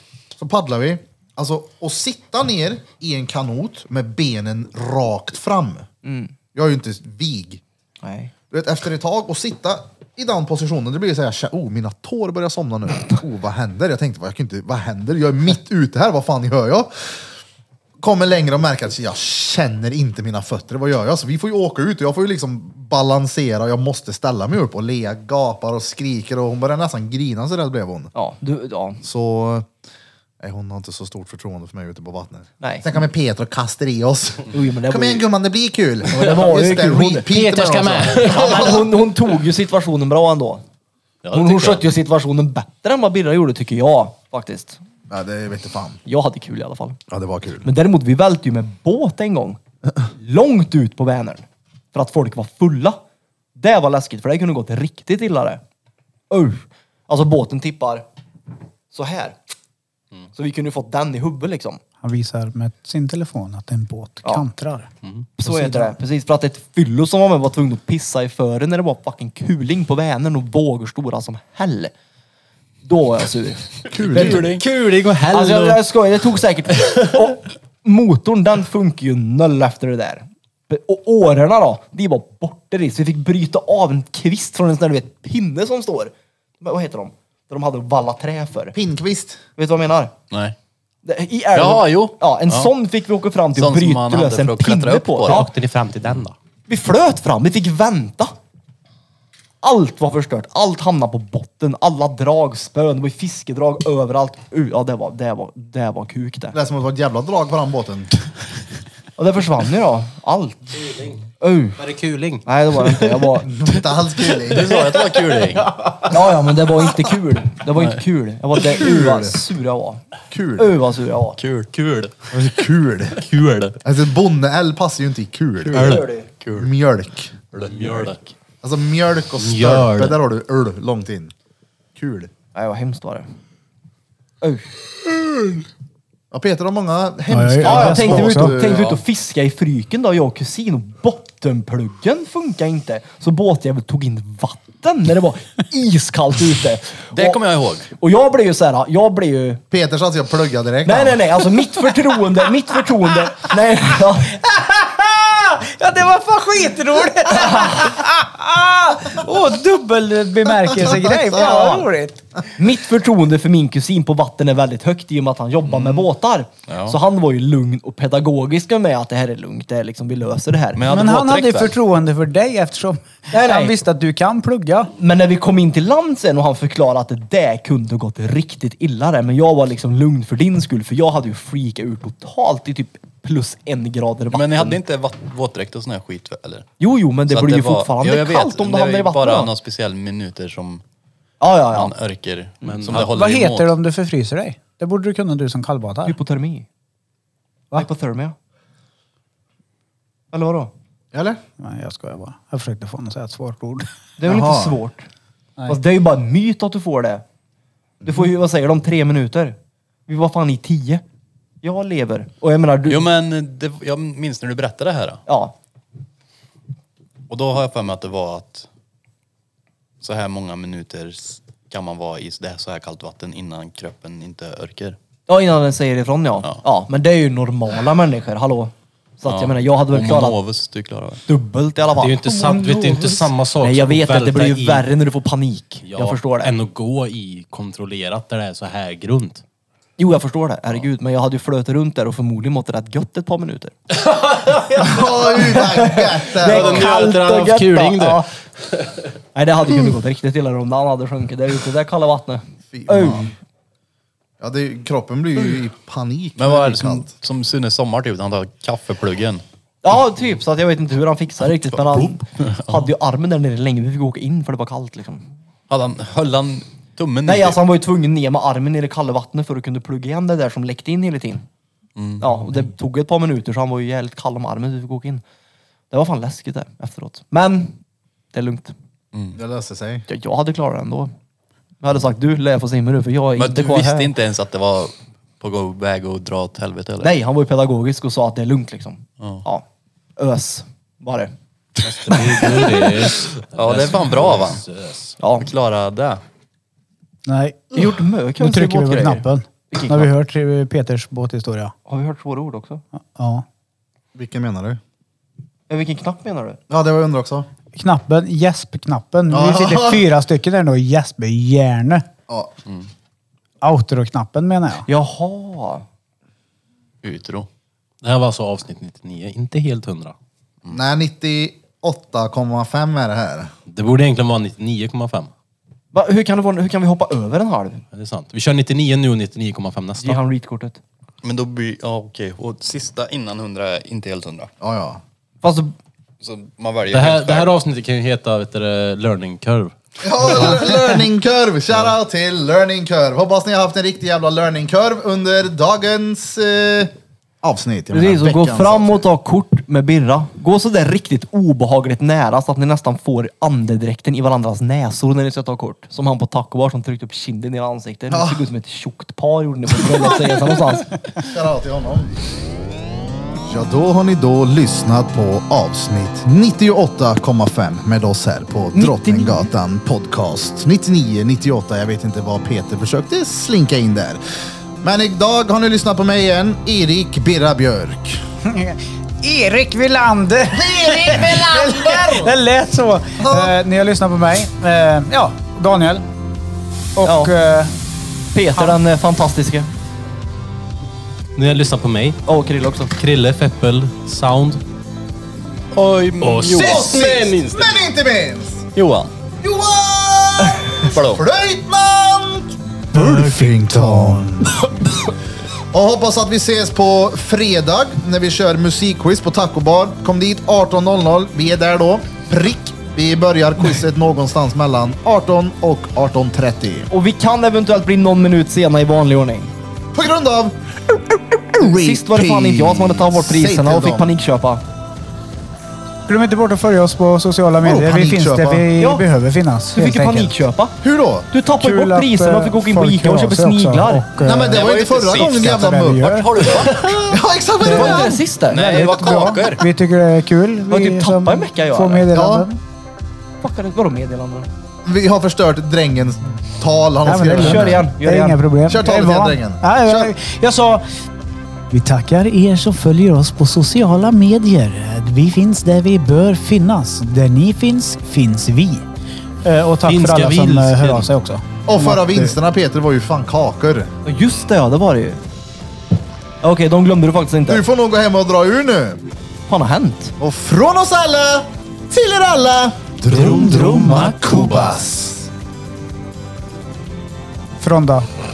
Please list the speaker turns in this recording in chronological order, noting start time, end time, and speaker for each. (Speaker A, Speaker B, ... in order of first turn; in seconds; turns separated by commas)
Speaker A: 0.4-5.9, Speaker B: 6.0-6.3, Speaker A: 6.5-7.6, Speaker B: 8.0-8.3, Speaker A: 8.5-17.4, Speaker A: 18.0-28.1, Speaker B: 28.1-29.0, Speaker A: 29.0-29.7, Speaker A: 30.4-38.9, Speaker B: 32.6-32.9, Speaker B: 34.5-35.3, Speaker B: 36.1-37.3, Speaker C: 37.3-38.9, Speaker B: 38.3-40.6, Speaker C: 41.2-41.9, Speaker B: 41.3-44.8, Speaker A: 45.1-46.0, Speaker B: 46.0-47.0, Speaker A: 47.1-47.7, Speaker B: 47.6-53.0, Speaker B: 53.6-55.6, Speaker B: 56.3-58.0, Speaker B: 58.9-59.4, Speaker B: 60.3-61.8, Speaker D: 62.0-64.9, Speaker B: 65.4-71.9, Speaker D: 65.5-66.0, Speaker B: 72.8-74.6, Speaker A: 73.9-74.5, Speaker E: 74.1-74.6, Speaker C: 74.2-75.8, Speaker B: 75.3-88.8, Speaker A: 88.8-89.4, Speaker B: 89.6-90.2, Speaker E: 90.3-90.6, Speaker B: 91.0-95.5, Speaker E: 91.5-92.7, Speaker E: 93.5-95.5, Speaker C: 95.2-96.3, Speaker B: 96.7-98.3, Speaker B: 99.6-106.6, Speaker A: 106.5-108.1, Speaker B: 109.2-110.7, Speaker C: 110.7-111.2, Speaker B: 111.4-111.8, Speaker C: 111.8-113.4, Speaker B: 112.5-113.5, Speaker A: 113.5-114.8, Speaker E: 114.4-115.8, Speaker C: 115.8-116.3, Speaker B: 116.1-120.0, Speaker E: 117.7-118.0, Speaker A: 118.6-119.4, Speaker A: 120.3-120.7, Speaker B: 120.6-121.4, Speaker E: 121.4-122.1, Speaker A: 122.3-123.2, Speaker C: 123.2-123.7, Speaker A: 123.8-126.0, Speaker E: 125.7-126.7, Speaker B: 125.7-126.3, Speaker A: 126.6-127.3, Speaker C: 127.5-128.2, Speaker E: 127.6-128.2, Speaker A: 128.6-131.3, Speaker C: 129.4-130.2, Speaker A: 131.9-132.3, Speaker B: 132.5-133.3, Speaker B: 134.4-134.7, Speaker A: 136.3-139.0, Speaker D: 137.3-138.6, Speaker B: 137.6-147.4, Speaker E: 147.1-147.9, Speaker B: 147.9-149.6, Speaker A: 149.7-151.2, Speaker B: 150.8-154.4, Speaker D: 154.4-162.2, Speaker A: 160.7-161.4, Speaker B: 160.9-161.9, Speaker B: 162.6-170.8, Speaker E: 165.7-166.1, Speaker E: 166.7-167.0, Speaker E: 170.8-171.7, Speaker D: 170.9-174.9, Speaker B: 173.3-173.8, Speaker B: 175.0-184.8, Speaker E: 184.3-186.7, Speaker B: 186.8-189.5, Speaker E: 187.3-190.8, Speaker B: 191.4-191.9, Speaker E: 191.7-193.7, Speaker C: 192.6-193.1, Speaker D: 192.9-196.2, Speaker B: 196.1-196.7, Speaker B: 197.7-198.4, Speaker B: 200.3-200.7, Speaker A: 201.1-201.4, Speaker D: 201.6-203.9, Speaker B: 204.2-205.1, Speaker A: 204.3-204.8, Speaker B: 205.7-207.2, Speaker B: 208.0-211.0, Speaker A: 208.0-208.3, Speaker B: 211.6-213.1, Speaker E: 212.9-215.2, Speaker B: 215.3-215.6, Speaker E: 217.3-218.7, Speaker E: 220.0-225.0, Speaker B: 225.3-230.4, Speaker E: 229.3-231.2, Speaker B: 231.3-236.5, Speaker C: 232.0-234.9, Speaker C: 235.9-239.4, Speaker B: 240.0-243.8, Speaker C: 243.9-245.0, Speaker B: 244.7-248.3, Speaker A: 244.8-246.9, Speaker C: 246.4-248.9, Speaker B: 249.3-253.3, Speaker A: 252.7-253.3, Speaker A: 254.4-257.1, Speaker E: 256.4-259.4, Speaker B: 259.8-265.3, Speaker E: 261.9-262.8, Speaker E: 265.7-267.6, Speaker B: 267.2-271.4, Speaker E: 272.0-272.3, Speaker B: 272.2-275.2, Speaker B: 275.9-277.8, Speaker B: 278.3-278.7, Speaker A: 279.3-280.1, Speaker B: 280.1-281.1, Speaker B: 281.8-284.1, Speaker E: 283.4-287.1, Speaker B: 287.0-289.6, Speaker E: 289.2-289.4, Speaker B: 290.2-291.3, Speaker C: 291.8-295.2, Speaker E: 293.1-294.6, Speaker B: 295.2-295.5, Speaker E: 295.4-296.2, Speaker D: 297.3-301.7, Speaker B: 297.7-300.1, Speaker B: 301.9-302.8, Speaker D: 302.9-303.4, Speaker A: 304.1-304.8, Speaker B: 305.7-306.6, Speaker A: 306.7-307.5, Speaker D: 307.7-312.1, Speaker A: 309.3-310.1, Speaker A: 312.3-312.5, Speaker D: 313.6-314.9, Speaker B: 314.9-315.9, Speaker E: 317.0-317.5, Speaker C: 318.0-320.1, Speaker A: 320.7-323.5, Speaker C: 323.7-325.3, Speaker B: 325.9-327.8, Speaker C: 327.9-330.2, Speaker B: 330.0-330.8, Speaker E: 331.2-334.5, Speaker A: 334.6-335.0, Speaker B: 335.4-335.7, Speaker E: 336.2-337.5, Speaker C: 336.9-339.7, Speaker A: 340.0-349.1, Speaker B: 347.9-361.0, Speaker A: 358.1-358.4, Speaker A: 360.0-360.3, Speaker A: 361.2-362.1, Speaker A: 363.5-374.2, Speaker B: 368.8-369.5, Speaker A: 374.8-378.2, Speaker D: 378.4-386.1, Speaker A: 380.5-382.3, Speaker A: 383.2-383.6, Speaker D: 387.0-387.7, Speaker B: 387.0-387.3, Speaker B: 388.3-389.7, Speaker C: 391.4-392.2, Speaker B: 392.3-392.9, Speaker C: 392.9-394.6, Speaker E: 395.7-397.1, Speaker C: 396.2-397.8, Speaker A: 396.5-398.7, Speaker E: 398.8-399.1, Speaker A: 399.4-404.7, Speaker E: 400.8-401.2, Speaker D: 402.9-404.4, Speaker A: 405.7-416.9, Speaker B: 416.9-419.5, Speaker A: 419.9-424.1, Speaker B: 421.6-424.6, Speaker D: 426.1-430.4, Speaker A: 427.6-428.7, Speaker B: 428.8-429.1, Speaker B: 429.7-430.8, Speaker A: 430.8-431.3, Speaker B: 431.3-434.1, Speaker D: 431.6-436.6, Speaker A: 434.2-436.5, Speaker E: 434.4-437.1, Speaker A: 437.1-438.2, Speaker D: 437.6-442.6, Speaker B: 437.6-438.6, Speaker E: 438.5-439.7, Speaker B: 440.7-442.1, Speaker A: 442.1-442.5, Speaker B: 443.4-444.5, Speaker A: 444.9-447.9, Speaker D: 447.0-450.8, Speaker B: 447.4-448.4, Speaker A: 448.7-450.1, Speaker D: 451.7-458.8, Speaker D: 459.4-462.4, Speaker C: 459.9-461.1, Speaker A: 461.7-463.9, Speaker B: 464.1-465.2, Speaker B: 466.4-467.6, Speaker A: 467.4-469.0, Speaker B: 469.5-470.1, Speaker A: 470.2-475.3, Speaker D: 473.4-473.8, Speaker D: 477.6-478.1